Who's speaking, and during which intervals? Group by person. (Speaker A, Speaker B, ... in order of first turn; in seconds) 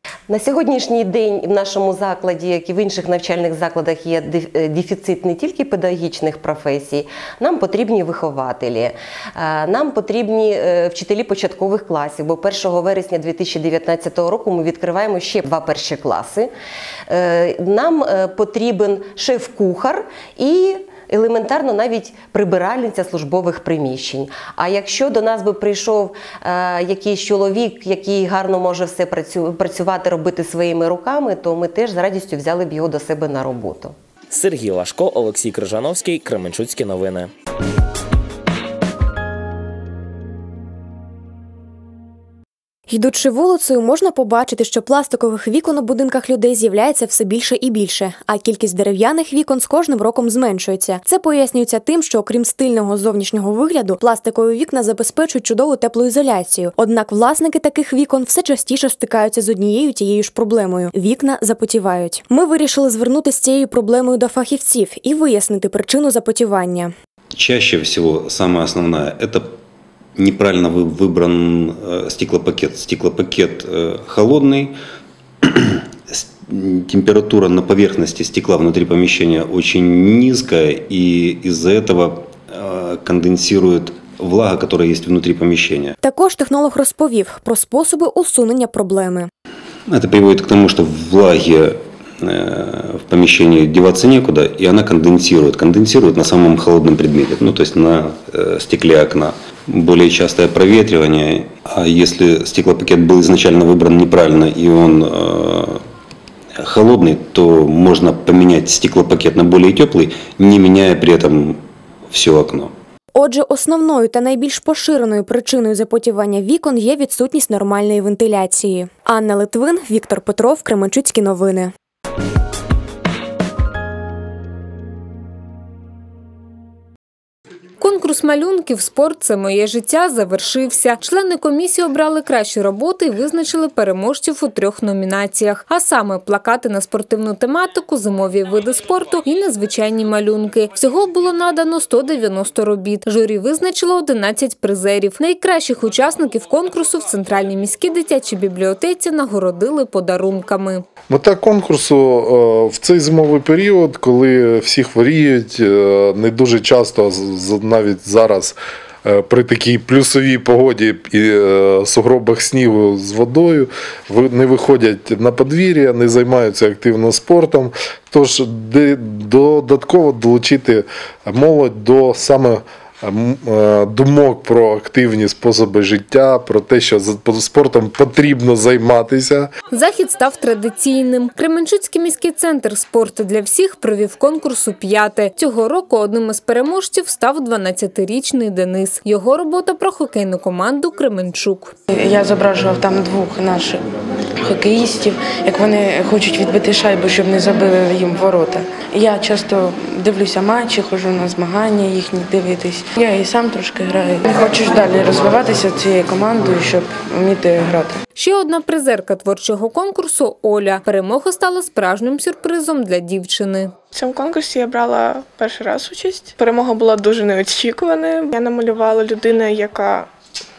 Speaker A: 0.3-16.5, 17.1-33.9
Speaker B: 34.3-37.3
Speaker C: 42.9-66.9, 86.0-89.3, 113.2-121.6
Speaker D: 67.3-69.5, 70.2-74.7, 75.5-85.9, 89.9-105.8, 106.6-111.6, 112.1-112.7
Speaker E: 127.8-150.8, 179.7-191.7, 208.1-213.7
Speaker F: 151.1-179.5
Speaker G: 192.0-193.8, 194.4-207.9
Speaker H: 213.9-220.1